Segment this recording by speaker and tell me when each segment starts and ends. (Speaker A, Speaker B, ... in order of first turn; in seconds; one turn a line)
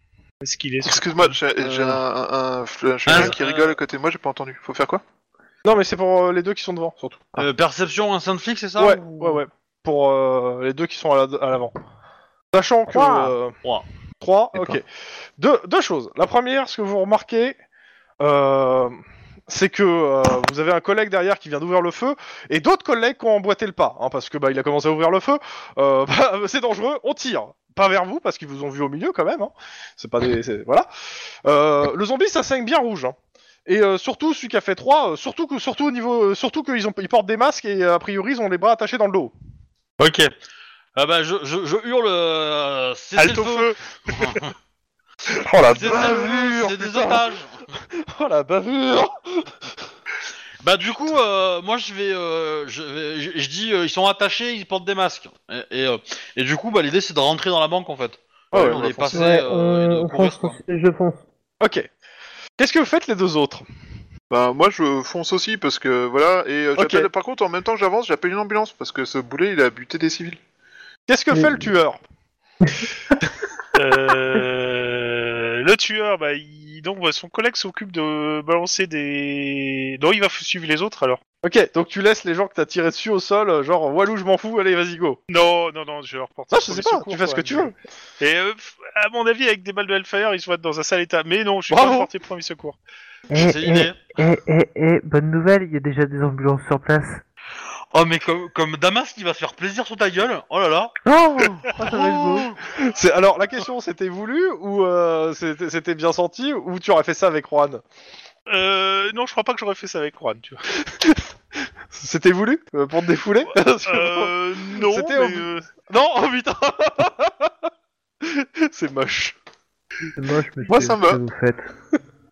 Speaker A: 0.4-1.3
Speaker B: 0.8-5.0
Speaker C: 3.0-3.8
Speaker D: 5.6-7.5
Speaker C: 7.3-9.3
Speaker D: 8.8-11.7
Speaker D: 12.5-13.6
Speaker E: 12.9-13.3
Speaker D: 14.2-14.8
Speaker D: 15.4-17.6
Speaker D: 18.2-18.9
Speaker D: 19.5-30.9
Speaker D: 31.4-39.3
Speaker C: 40.0-40.3
Speaker C: 41.0-44.5
Speaker A: 43.1-44.4
Speaker D: 45.4-47.2
Speaker C: 45.6-47.8
Speaker D: 47.9-49.6
Speaker C: 50.6-60.6
Speaker D: 58.5-59.2
Speaker E: 59.1-61.2
Speaker D: 61.6-61.9
Speaker D: 62.6-63.6
Speaker B: 64.3-70.4
Speaker D: 66.8-67.1
Speaker D: 71.1-72.0
Speaker E: 71.3-71.6
Speaker E: 72.6-72.9
Speaker A: 73.7-81.2
Speaker D: 81.4-85.2
Speaker A: 85.3-92.8
Speaker D: 86.5-87.7
Speaker D: 91.7-92.1
Speaker E: 93.3-97.2
Speaker C: 93.3-94.0
Speaker C: 97.9-100.9
Speaker E: 101.0-102.5
Speaker C: 101.9-102.2
Speaker D: 102.7-107.8
Speaker A: 108.5-110.7
Speaker D: 110.8-111.3
Speaker D: 111.9-117.5
Speaker A: 113.8-115.7
Speaker D: 118.2-119.3
Speaker E: 120.1-121.7
Speaker B: 120.7-121.2